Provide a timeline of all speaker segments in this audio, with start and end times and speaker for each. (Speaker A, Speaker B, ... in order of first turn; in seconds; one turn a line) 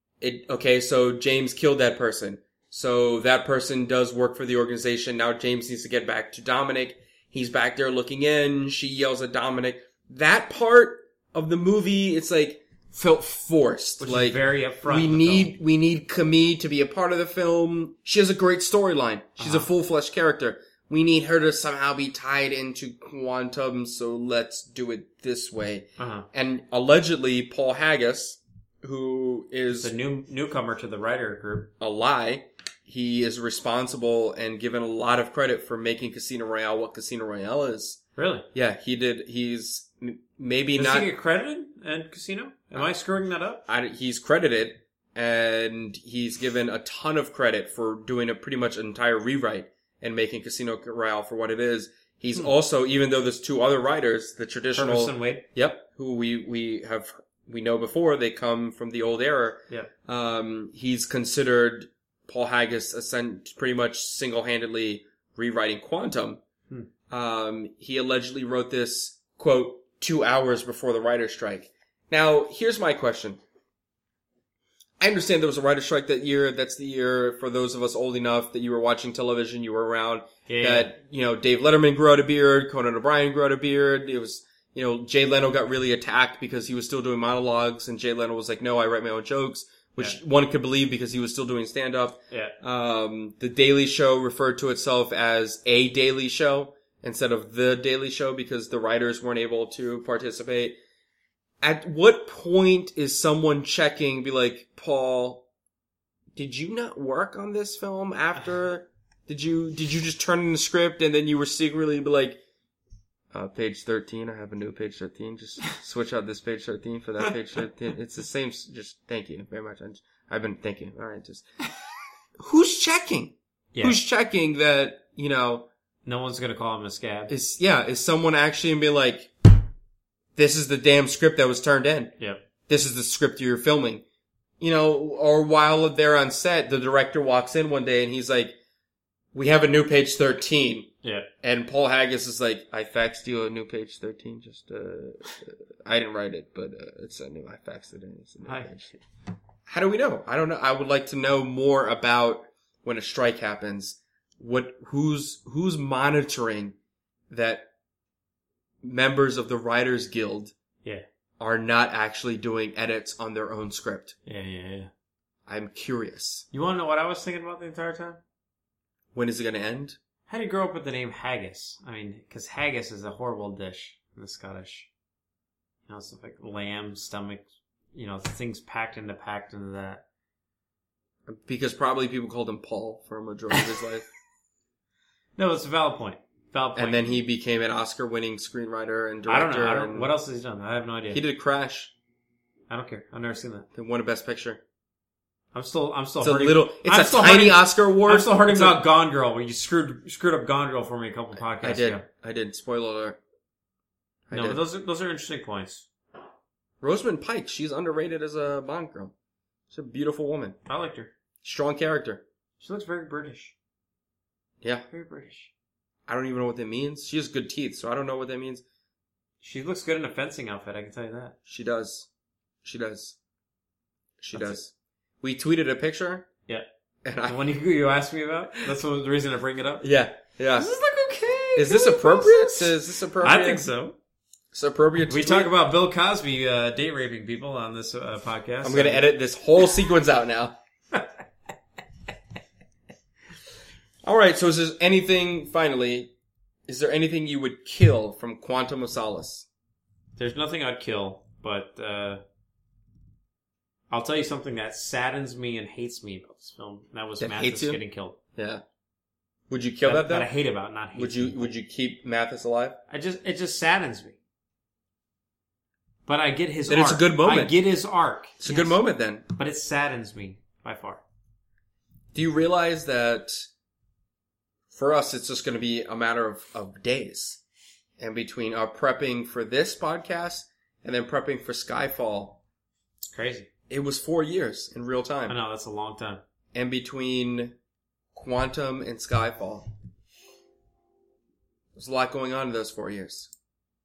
Speaker A: 0.2-29.9
Speaker B: 14.0-15.5
Speaker B: 19.4-19.7
Speaker B: 26.0-26.3
Speaker B: 29.8-31.7
Speaker A: 31.8-38.0
Speaker B: 38.2-38.5
Speaker A: 38.5-41.1
Speaker B: 40.8-43.6
Speaker A: 43.7-66.4
Speaker B: 54.8-55.5
Speaker A: 67.1-73.4
Speaker A: 75.0-100.8
Speaker B: 80.5-80.9
Speaker B: 92.3-92.6
Speaker A: 101.6-105.4
Speaker A: 106.3-112.4
Speaker A: 113.3-121.5
Speaker A: 122.4-125.7
Speaker B: 123.7-124.0
Speaker B: 126.0-127.3
Speaker A: 127.3-129.3
Speaker A: 130.4-132.1
Speaker A: 132.7-134.0
Speaker A: 134.6-138.6
Speaker A: 139.3-148.9
Speaker B: 141.0-141.3
Speaker B: 148.5-148.8
Speaker A: 149.7-156.8
Speaker A: 157.3-157.7
Speaker A: 158.8-160.5
Speaker A: 161.4-164.2
Speaker B: 164.3-164.9
Speaker A: 165.5-166.5
Speaker B: 166.5-168.2
Speaker A: 169.1-170.0
Speaker B: 170.3-174.9
Speaker B: 175.9-180.0
Speaker A: 181.3-184.1
Speaker B: 185.4-187.2
Speaker A: 186.8-190.1
Speaker B: 189.3-191.2
Speaker A: 191.1-191.9
Speaker B: 192.7-193.7
Speaker A: 193.7-194.6
Speaker B: 195.5-202.1
Speaker A: 196.2-198.8
Speaker A: 201.4-203.2
Speaker A: 204.3-204.6
Speaker B: 204.3-205.9
Speaker A: 206.8-209.1
Speaker A: 209.7-210.6
Speaker B: 210.7-211.1
Speaker A: 211.4-212.2
Speaker B: 212.6-213.5
Speaker B: 214.9-215.5
Speaker A: 216.1-218.6
Speaker B: 219.4-221.4
Speaker A: 221.5-222.1
Speaker A: 222.6-223.2
Speaker A: 224.2-226.3
Speaker A: 227.0-227.4
Speaker B: 227.3-229.9
Speaker A: 229.8-230.7
Speaker B: 230.6-234.0
Speaker A: 231.6-233.7
Speaker A: 234.5-235.5
Speaker B: 235.1-239.1
Speaker A: 238.6-240.6
Speaker A: 244.0-246.1
Speaker A: 246.7-249.5
Speaker B: 250.2-252.2
Speaker B: 253.9-258.2
Speaker A: 257.2-257.8
Speaker A: 258.4-258.6
Speaker A: 259.5-260.3
Speaker B: 259.8-261.5
Speaker A: 260.9-262.8
Speaker B: 262.9-264.2
Speaker B: 266.1-268.8
Speaker A: 266.7-267.6
Speaker A: 268.4-269.2
Speaker B: 269.3-271.0
Speaker A: 272.1-273.5
Speaker A: 274.7-277.4
Speaker A: 278.0-282.4
Speaker B: 283.0-283.5
Speaker A: 283.7-285.4
Speaker B: 285.3-286.2
Speaker A: 286.5-287.6
Speaker A: 288.1-289.7
Speaker A: 291.8-293.3